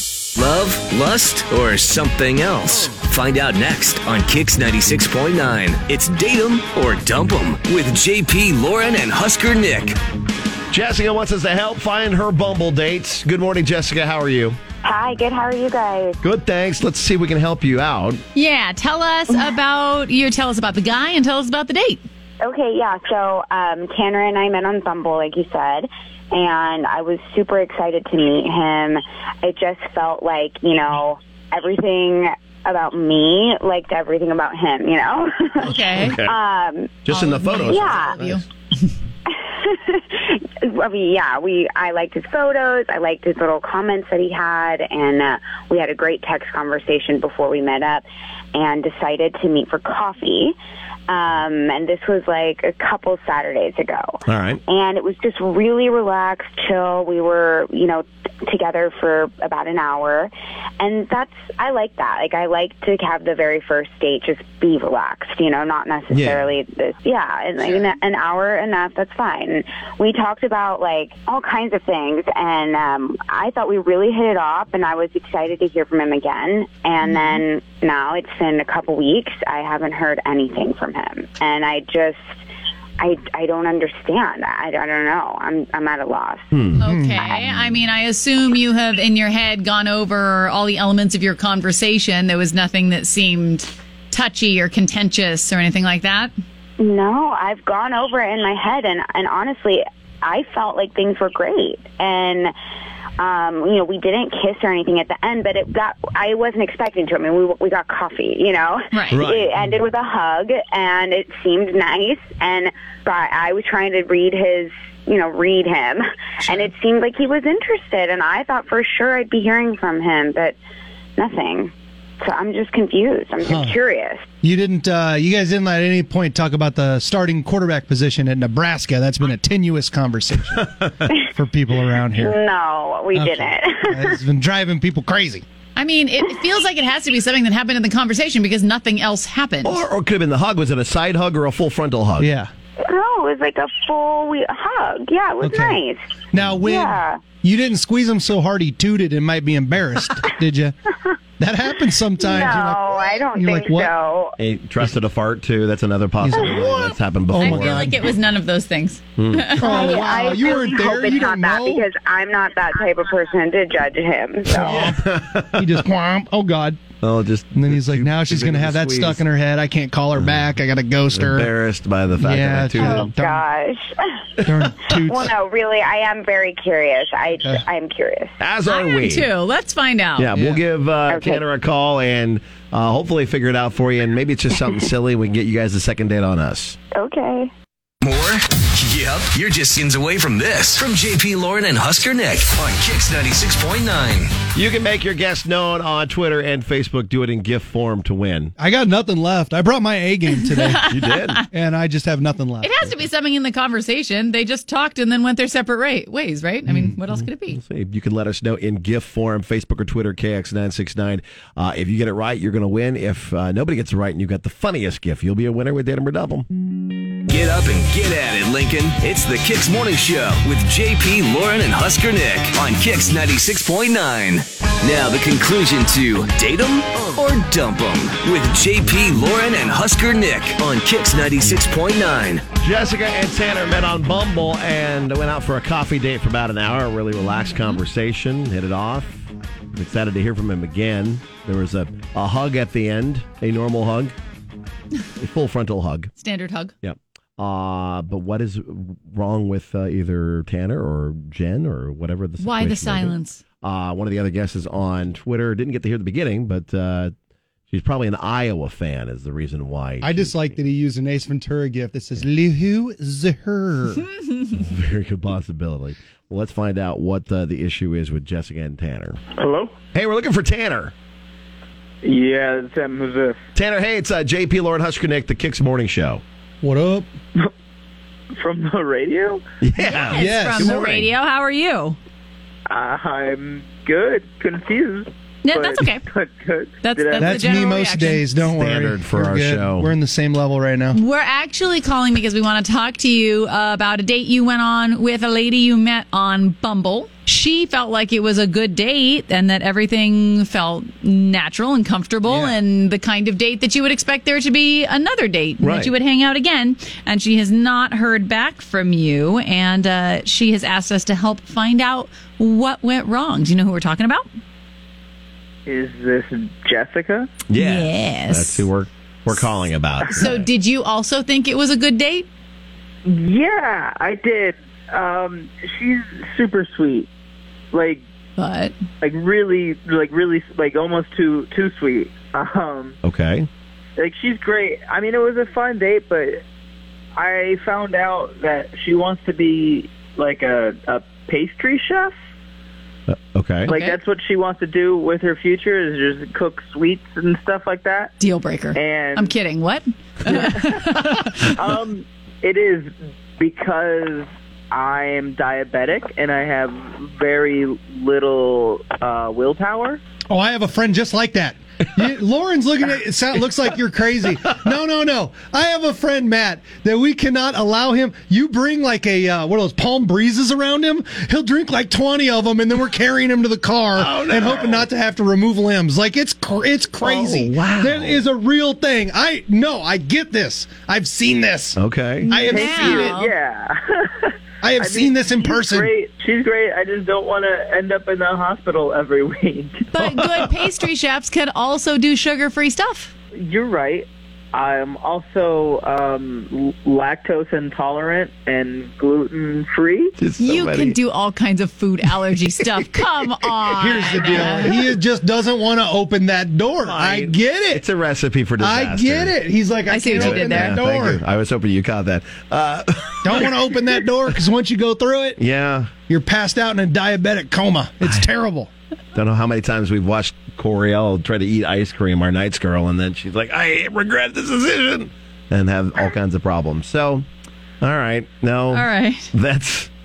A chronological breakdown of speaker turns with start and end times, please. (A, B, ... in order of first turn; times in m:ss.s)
0:00.3-0:10.0 A
0:10.7-0:14.6 B
0:14.8-0:16.2 C
0:16.2-0:18.2 B
0:18.3-0:22.0 D
0:22.4-0:37.0 C
0:35.6-0:36.2 D
0:35.8-0:36.4 B
0:37.1-0:38.4 B
0:37.1-0:38.9 D
0:37.7-0:38.2 C
0:39.3-0:48.0 C
0:48.5-0:50.6 C
0:51.1-1:22.4 C
0:54.3-0:54.6 B
1:06.1-1:06.5 B
1:07.6-1:07.9 D
1:17.0-1:17.4 D
1:23.0-1:26.5 C
1:26.5-1:26.8 B
1:26.8-1:36.3 D
1:26.8-1:27.2 E
1:36.8-1:42.5 C
1:43.2-2:00.6 C
1:48.9-1:49.2 D
1:49.1-1:49.5 B
2:01.2-2:04.3 C
2:03.4-2:03.8 E
2:04.4-2:10.7 E
2:11.2-2:12.4 E
2:12.1-2:14.2 C
2:13.1-2:15.4 E
2:15.8-2:19.8 D
2:19.6-2:22.3 B
2:22.2-2:22.5 E
2:22.8-2:26.0 C
2:25.4-2:25.8 E
2:26.3-2:30.8 E
2:26.6-2:27.3 C
2:31.4-2:33.9 E
2:32.2-2:34.4 C
2:34.4-2:37.9 B
2:36.2-2:38.0 E
2:37.4-2:40.1 D
2:39.2-2:39.5 B
2:39.6-2:41.9 E
2:39.6-2:44.9 C
2:44.5-2:45.0 E
2:44.6-2:45.8 B
2:45.6-2:46.8 E
2:47.0-2:49.2 B
2:47.6-2:51.5 E
2:50.2-2:50.5 B
2:51.1-2:53.1 B
2:52.2-2:53.4 E
2:52.8-2:58.3 C
2:54.4-2:55.3 E
2:58.4-2:59.3 B
2:58.7-3:00.3 D
3:00.2-3:06.8 B
3:00.4-3:00.6 E
3:01.1-3:01.4 C
3:06.9-3:07.5 C
3:08.0-3:14.3 A
3:14.6-3:18.5 B
3:18.6-3:20.9 E
3:20.4-3:21.4 D
3:20.9-3:21.4 B
3:21.5-3:22.8 E
3:22.6-3:27.6 D
3:27.2-3:36.5 B
3:37.3-3:52.4 A
3:52.6-4:04.1 B
4:05.2-4:06.1 B
4:06.2-4:06.7 D
4:06.8-4:17.1 B
4:12.4-4:13.4 D
4:17.7-4:20.6 B
4:20.0-4:24.1 E
4:24.5-4:29.2 B
4:29.4-4:29.7 F
4:29.9-4:30.9 B
4:32.0-4:33.4 F
4:33.6-4:36.2 B
4:36.6-4:37.1 E
4:38.4-4:39.4 F
4:39.6-4:41.1 B
4:39.8-4:42.0 D
4:40.1-4:40.8 E
4:42.7-4:47.7 F
4:45.4-4:46.0 D
4:46.8-4:48.4 D
4:47.2-4:51.0 E
4:48.6-4:49.9 B
4:50.9-5:14.3 D
5:02.3-5:02.6 E
5:05.6-5:05.9 B
5:15.7-5:17.3 F
5:17.5-5:20.5 B
5:17.6-5:18.7 D
5:20.0-5:22.3 D
5:23.1-5:27.1 F
5:27.7-5:28.0 F
5:28.4-5:28.7 D
5:29.0-5:33.0 F
5:33.0-5:33.5 B
5:34.0-5:36.4 F
5:37.2-5:42.1 F
5:43.1-5:43.7 B
5:43.7-5:48.2 F
5:43.7-5:44.0 D
5:48.2-5:51.5 D
5:48.7-5:49.3 F
5:50.3-5:50.8 F
5:51.4-6:00.0 F
6:00.3-6:23.1 E
6:14.0-6:14.9 B
6:17.0-6:18.2 B
6:21.8-6:22.3 B
6:22.3-6:23.3 D
6:22.4-6:29.9 F
6:24.6-6:25.9 E
6:29.9-6:33.1 D
6:30.1-6:30.7 B
6:33.4-6:40.1 F
6:40.2-6:41.0 B
6:40.4-6:44.8 D
6:43.8-6:47.8 E
6:46.8-6:49.3 B
6:48.6-6:51.2 E
6:49.9-6:50.8 D
6:50.1-6:53.6 B
6:53.2-6:55.4 E
6:55.4-6:55.9 B
6:56.1-6:58.7 E
6:58.0-6:58.3 B
6:59.1-7:07.2 B
7:07.8-7:09.9 B
7:08.7-7:09.3 D